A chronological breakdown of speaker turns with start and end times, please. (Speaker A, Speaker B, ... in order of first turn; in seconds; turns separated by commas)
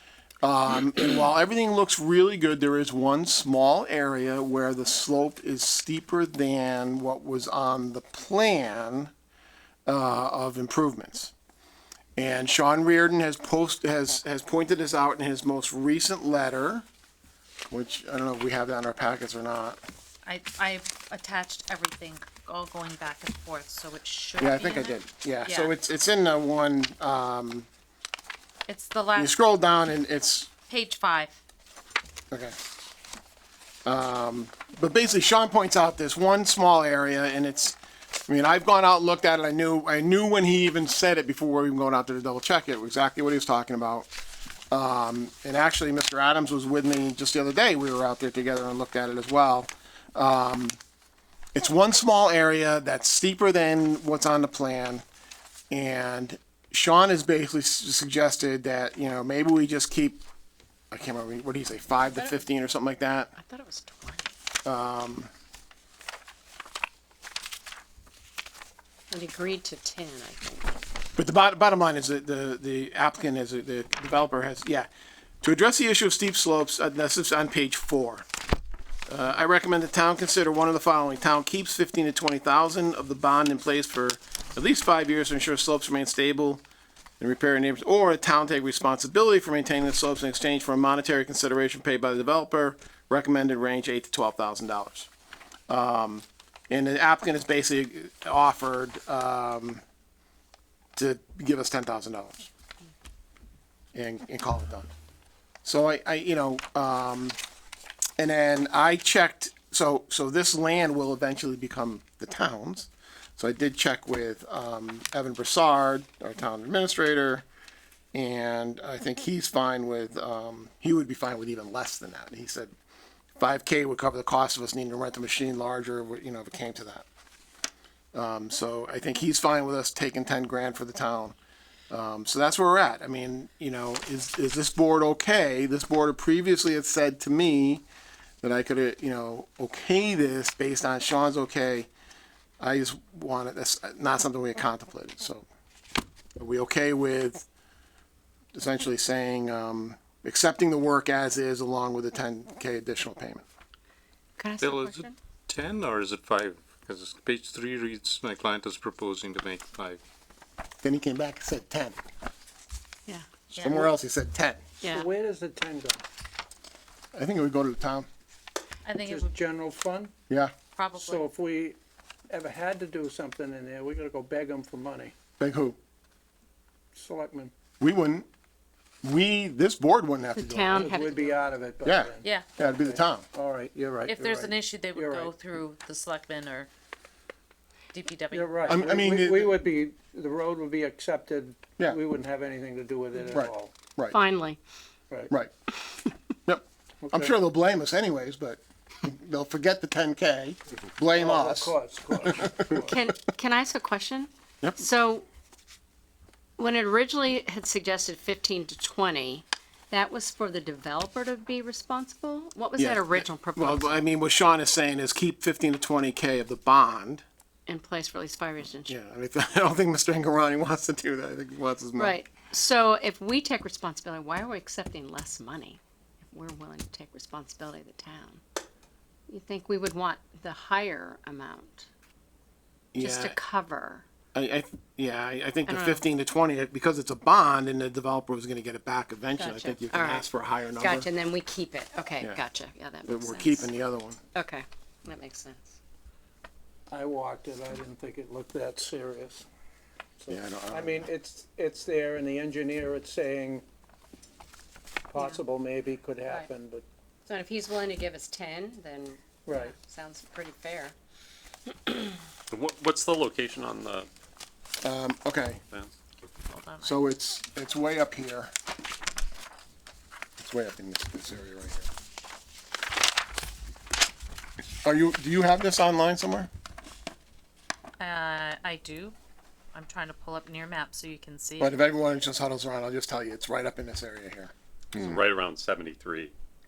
Speaker A: 0.4-9.1, Speaker A: 9.9-11.3, Speaker A: 12.2-16.9, Speaker A: 17.7-19.8, Speaker B: 20.2-25.7, Speaker A: 24.4-27.7, Speaker B: 28.7-29.4, Speaker A: 29.2-30.5, Speaker B: 30.7-31.4, Speaker A: 32.3-32.6, Speaker A: 33.9-37.8, Speaker A: 38.3-44.1, Speaker A: 44.7-50.8, Speaker A: 51.5-55.0, Speaker A: 55.7-60.2, Speaker A: 60.9-63.3, Speaker C: 63.4-64.3, Speaker A: 64.7-65.3, Speaker C: 69.1-70.8, Speaker A: 71.2-74.9, Speaker A: 75.4-78.3, Speaker A: 79.1-86.6, Speaker A: 87.2-95.1, Speaker A: 95.7-99.8, Speaker A: 101.0-102.5, Speaker A: 103.9-104.9, Speaker A: 105.7-107.4, Speaker A: 108.2-117.5, Speaker A: 118.1-122.7, Speaker A: 123.4-127.1, Speaker A: 128.1-131.3, Speaker A: 131.9-137.8, Speaker A: 138.4-141.9, Speaker A: 142.6-145.5, Speaker A: 146.4-147.5, Speaker A: 148.5-153.4, Speaker C: 154.4-155.2, Speaker D: 154.6-160.0, Speaker A: 160.8-162.0, Speaker B: 163.5-163.9, Speaker A: 163.5-164.6, Speaker C: 164.8-165.1, Speaker E: 164.8-166.1, Speaker A: 167.1-168.1, Speaker B: 168.8-169.4, Speaker E: 169.0-170.1, Speaker B: 170.8-171.3, Speaker E: 171.0-171.8, Speaker E: 172.3-175.1, Speaker A: 175.4-175.8, Speaker E: 176.9-177.5, Speaker A: 177.8-178.3, Speaker A: 179.0-180.9, Speaker C: 180.3-181.5, Speaker E: 180.7-185.3, Speaker A: 181.8-183.3, Speaker B: 184.1-186.7, Speaker B: 187.9-188.9, Speaker E: 188.3-193.8, Speaker A: 188.7-189.5, Speaker A: 193.3-194.2, Speaker C: 194.1-194.6, Speaker A: 196.4-201.7, Speaker E: 197.0-197.3, Speaker E: 201.1-203.0, Speaker A: 202.2-202.8, Speaker C: 202.8-205.3, Speaker C: 206.6-214.0, Speaker A: 212.8-217.2, Speaker C: 217.7-218.9, Speaker A: 218.9-222.2, Speaker C: 222.0-228.4, Speaker C: 229.3-231.9, Speaker A: 232.9-233.4, Speaker C: 233.0-234.1, Speaker A: 234.3-241.1, Speaker C: 235.7-236.1, Speaker C: 239.3-243.7, Speaker A: 243.1-244.2, Speaker C: 244.3-245.8, Speaker E: 246.9-249.5, Speaker E: 250.2-253.7, Speaker A: 250.3-251.1, Speaker E: 255.1-256.9, Speaker C: 255.2-255.4, Speaker C: 256.2-256.5, Speaker C: 257.3-260.9, Speaker E: 259.5-259.7, Speaker C: 261.7-262.1, Speaker F: 262.5-264.1, Speaker A: 264.8-265.6, Speaker F: 265.7-266.0, Speaker B: 266.5-267.0, Speaker A: 266.8-268.5, Speaker A: 270.4-271.9, Speaker A: 274.8-276.5, Speaker B: 278.0-279.1, Speaker B: 279.7-281.7, Speaker A: 281.6-284.5, Speaker F: 285.0-286.4